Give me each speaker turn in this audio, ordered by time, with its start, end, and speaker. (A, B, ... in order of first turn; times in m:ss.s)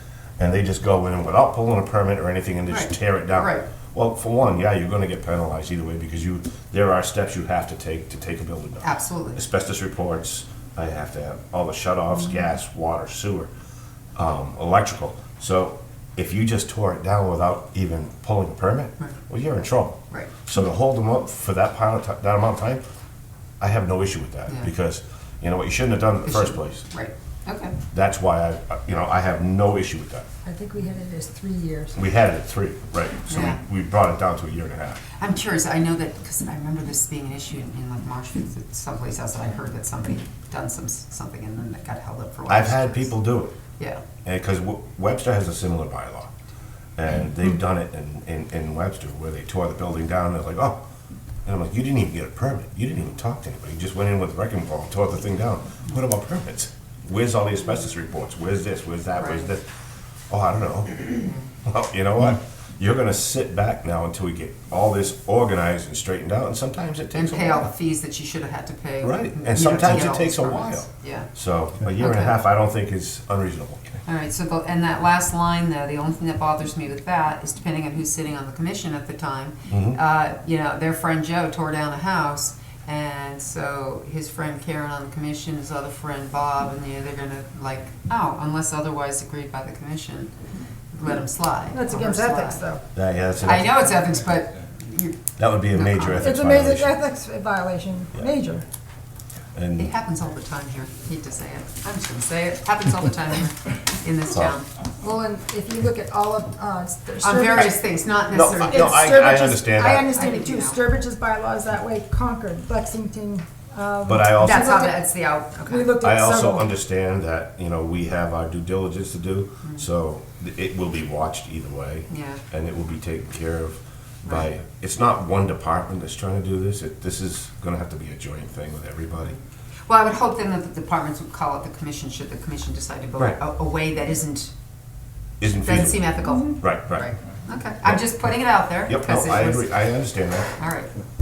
0:00.4-0:13.5 A
0:02.7-0:03.7 B
0:08.8-0:09.4 B
0:14.2-0:22.8 A
0:23.6-0:26.8 A
0:26.2-0:27.8 B
0:27.9-0:30.2 A
0:30.4-0:32.0 C
0:31.9-0:35.0 A
0:33.3-0:33.6 B
0:35.2-0:43.1 B
0:42.5-0:43.5 A
0:43.8-0:44.0 B
0:44.2-0:46.3 A
0:47.0-0:50.8 A
0:51.4-0:59.7 A
0:59.2-0:59.5 B
1:00.3-1:07.7 A
1:07.1-1:11.3 B
1:09.0-1:14.0 A
1:12.0-1:12.3 B
1:14.0-1:30.3 B
1:19.7-1:20.0 A
1:30.9-1:32.6 B
1:31.7-1:32.8 C
1:32.9-1:34.1 A
1:33.4-1:36.4 B
1:35.4-1:36.9 A
1:36.2-1:38.6 C
1:39.5-1:39.9 A
1:39.8-1:44.7 B
1:44.3-1:44.6 A
1:45.0-1:47.7 C
1:47.2-1:49.1 B
1:48.3-1:50.1 A
1:48.4-1:54.9 C
1:50.0-1:50.8 B
1:54.0-1:54.7 A
1:54.4-1:55.9 B
1:55.7-1:56.7 C
1:56.0-2:09.4 A
2:02.1-2:02.4 B
2:09.9-2:14.5 B
2:15.4-2:17.1 A
2:15.4-2:19.7 B
2:17.8-2:18.1 A
2:18.9-2:20.5 A
2:20.6-2:20.9 B